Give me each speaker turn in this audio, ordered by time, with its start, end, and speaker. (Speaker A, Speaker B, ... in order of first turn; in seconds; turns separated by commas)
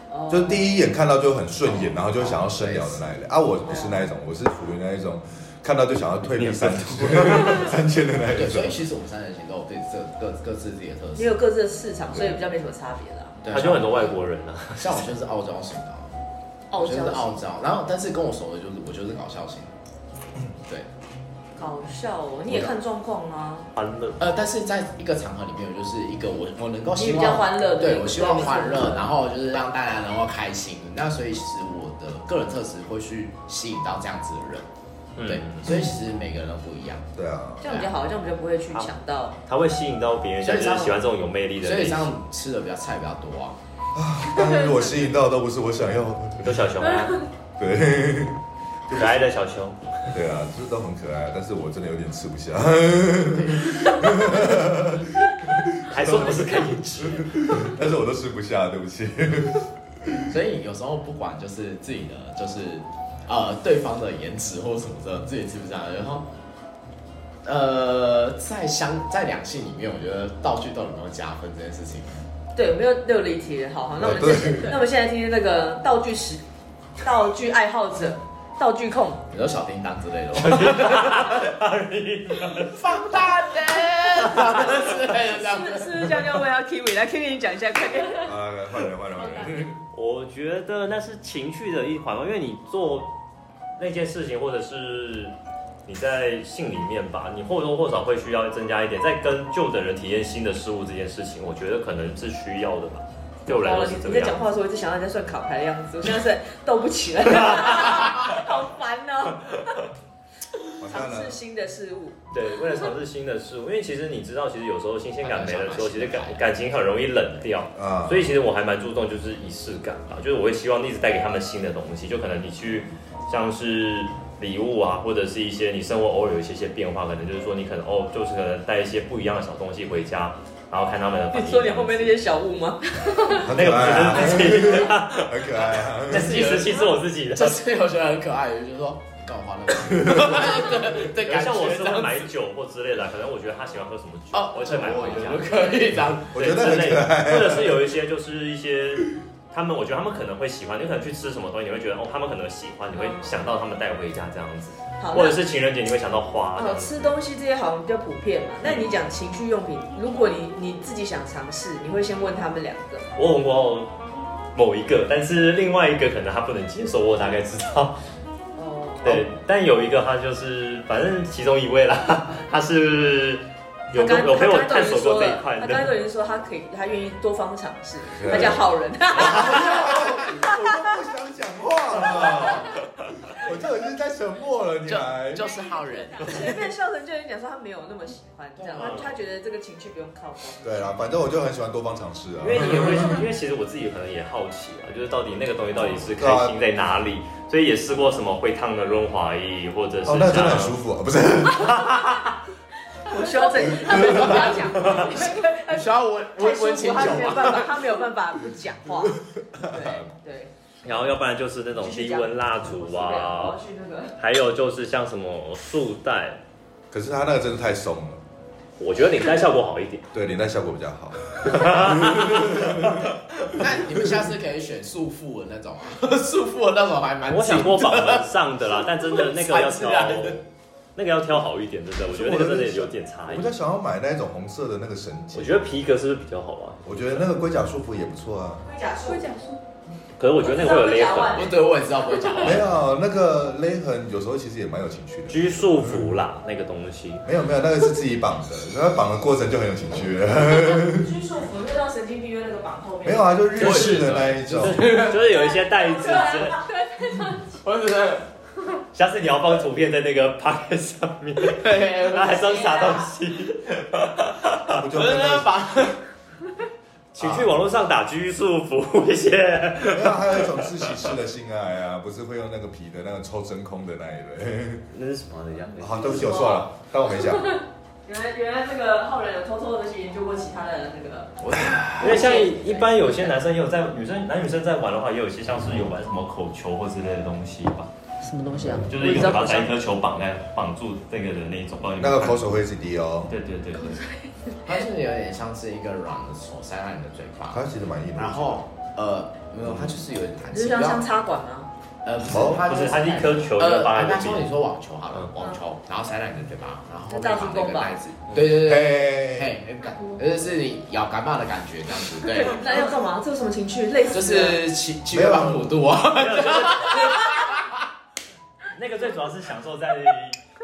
Speaker A: 0.1-0.7, Speaker B: 0.3-8.8, Speaker C: 1.7-3.2, Speaker A: 3.6-4.1, Speaker D: 6.3-7.7, Speaker C: 8.3-11.4, Speaker A: 11.1-13.4, Speaker C: 13.4-14.2, Speaker D: 13.5-15.1, Speaker C: 14.8-16.1, Speaker A: 16.7-17.4, Speaker C: 16.7-19.7, Speaker A: 21.6-23.7, Speaker D: 23.7-24.2, Speaker C: 24.2-34.7, Speaker A: 26.9-29.1, Speaker D: 35.1-35.7, Speaker C: 35.2-37.1, Speaker B: 37.1-37.7, Speaker A: 37.6-39.4, Speaker C: 37.6-37.9, Speaker D: 39.5-42.1, Speaker C: 40.4-41.0, Speaker C: 41.6-43.6, Speaker B: 43.9-46.7, Speaker D: 46.4-47.3, Speaker B: 47.6-49.2, Speaker D: 48.9-50.1, Speaker B: 50.1-60.3, Speaker D: 55.9-57.6, Speaker C: 60.3-66.3, Speaker C: 67.4-72.2, Speaker A: 72.5-76.4, Speaker B: 74.0-74.8, Speaker A: 77.0-79.2, Speaker C: 79.3-81.5, Speaker D: 80.4-82.8, Speaker C: 82.4-86.2, Speaker D: 84.3-84.7, Speaker A: 85.2-88.3, Speaker B: 88.2-89.8, Speaker E: 89.2-89.6, Speaker D: 89.9-93.1, Speaker D: 93.8-95.3, Speaker D: 95.8-104.4, Speaker A: 103.5-109.8, Speaker D: 107.6-108.1, Speaker B: 110.8-111.4, Speaker A: 110.8-112.2, Speaker D: 112.3-132.2, Speaker C: 115.2-116.4, Speaker B: 117.7-118.3, Speaker A: 131.3-133.4, Speaker D: 133.2-137.6, Speaker B: 133.3-136.5, Speaker C: 136.1-142.3, Speaker B: 139.8-140.5, Speaker D: 141.0-157.1, Speaker C: 144.3-146.7, Speaker B: 146.3-147.9, Speaker A: 152.9-153.4, Speaker A: 155.0-155.4, Speaker A: 156.6-163.1, Speaker D: 158.6-158.9, Speaker D: 163.2-163.9, Speaker D: 164.5-168.0, Speaker A: 168.6-169.3, Speaker D: 169.0-175.9, Speaker A: 173.9-180.8, Speaker B: 178.2-178.6, Speaker B: 179.1-185.5, Speaker C: 179.8-180.5, Speaker C: 184.8-186.6, Speaker E: 185.5-186.4, Speaker A: 186.2-191.0, Speaker C: 188.6-189.1, Speaker D: 188.8-189.1, Speaker B: 190.6-193.2, Speaker D: 192.4-200.8, Speaker B: 196.2-196.6, Speaker B: 200.0-202.1, Speaker D: 201.5-202.3, Speaker A: 203.0-210.5, Speaker E: 203.2-205.3, Speaker B: 203.8-204.3, Speaker C: 204.2-207.8, Speaker D: 204.7-205.1, Speaker B: 209.4-210.1, Speaker D: 210.8-213.6, Speaker A: 211.8-214.2, Speaker D: 214.2-216.4, Speaker B: 216.9-218.2, Speaker D: 218.8-220.1, Speaker B: 220.1-224.2, Speaker D: 221.4-223.0, Speaker C: 223.5-230.4, Speaker D: 227.3-230.4, Speaker D: 230.9-233.5, Speaker B: 232.1-235.6, Speaker D: 235.3-237.1, Speaker B: 236.8-238.7, Speaker A: 238.6-239.3, Speaker E: 239.0-239.6, Speaker D: 240.2-241.5, Speaker A: 240.4-241.6, Speaker C: 241.3-242.7, Speaker B: 242.4-246.1, Speaker D: 245.3-247.2, Speaker B: 247.2-251.1, Speaker A: 250.7-253.5, Speaker B: 253.0-254.9, Speaker C: 253.6-255.5, Speaker D: 253.6-256.6, Speaker A: 255.3-256.8, Speaker E: 256.8-257.5, Speaker C: 257.5-258.2, Speaker D: 258.9-264.8, Speaker C: 261.4-262.6, Speaker A: 262.4-263.1, Speaker B: 264.7-265.5, Speaker C: 264.9-266.0, Speaker D: 267.1-271.1, Speaker B: 267.2-267.6, Speaker B: 269.8-274.9, Speaker D: 274.9-276.3, Speaker B: 275.8-277.5, Speaker A: 276.0-276.7, Speaker A: 278.0-281.4, Speaker C: 281.4-282.7, Speaker D: 282.0-287.9, Speaker A: 282.0-283.3, Speaker A: 288.2-289.7, Speaker B: 288.5-288.9, Speaker D: 288.9-292.6, Speaker B: 292.0-293.3, Speaker D: 293.3-294.0, Speaker E: 293.8-294.6, Speaker C: 294.6-297.6, Speaker B: 297.5-298.6, Speaker C: 298.1-301.1, Speaker B: 299.6-300.0, Speaker A: 300.5-301.7, Speaker C: 302.0-312.8, Speaker B: 302.2-302.7, Speaker D: 302.6-304.5, Speaker A: 307.1-307.9, Speaker B: 308.4-309.5, Speaker E: 309.9-310.2, Speaker A: 312.4-314.6, Speaker C: 314.1-317.8, Speaker B: 315.1-315.8, Speaker D: 316.1-317.5, Speaker D: 318.7-320.4